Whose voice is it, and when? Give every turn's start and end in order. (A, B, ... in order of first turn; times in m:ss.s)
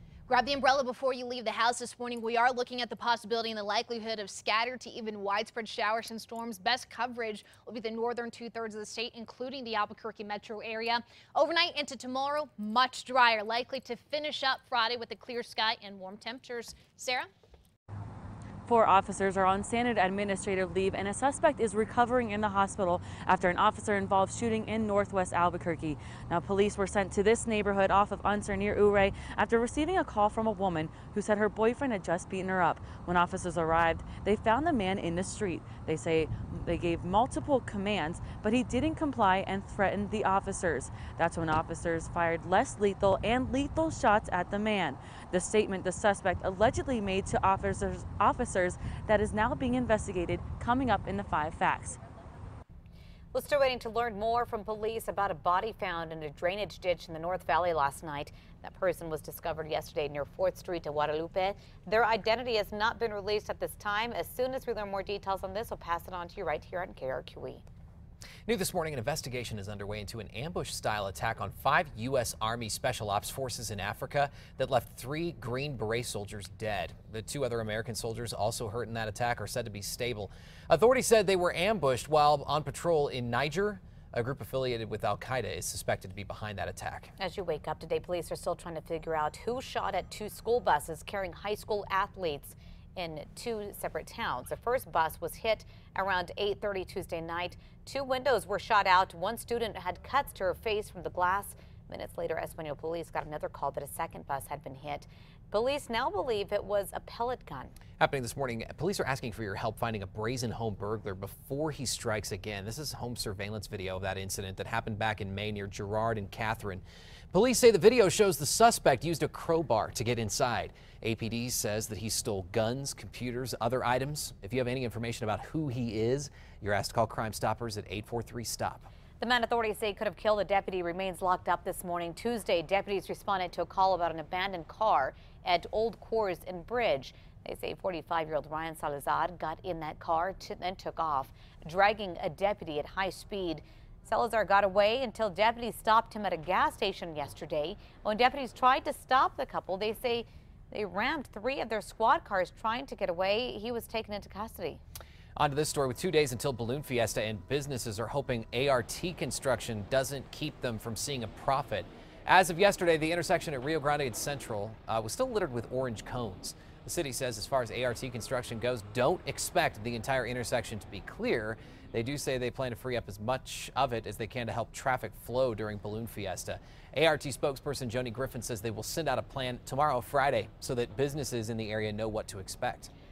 0:00.3-0:17.3 A
0:18.7-0:52.0 B
0:53.3-1:07.6 C
1:08.5-1:27.1 D
1:27.2-1:47.8 C
1:48.0-2:08.9 D
2:09.2-2:34.8 C
2:35.4-3:02.9 D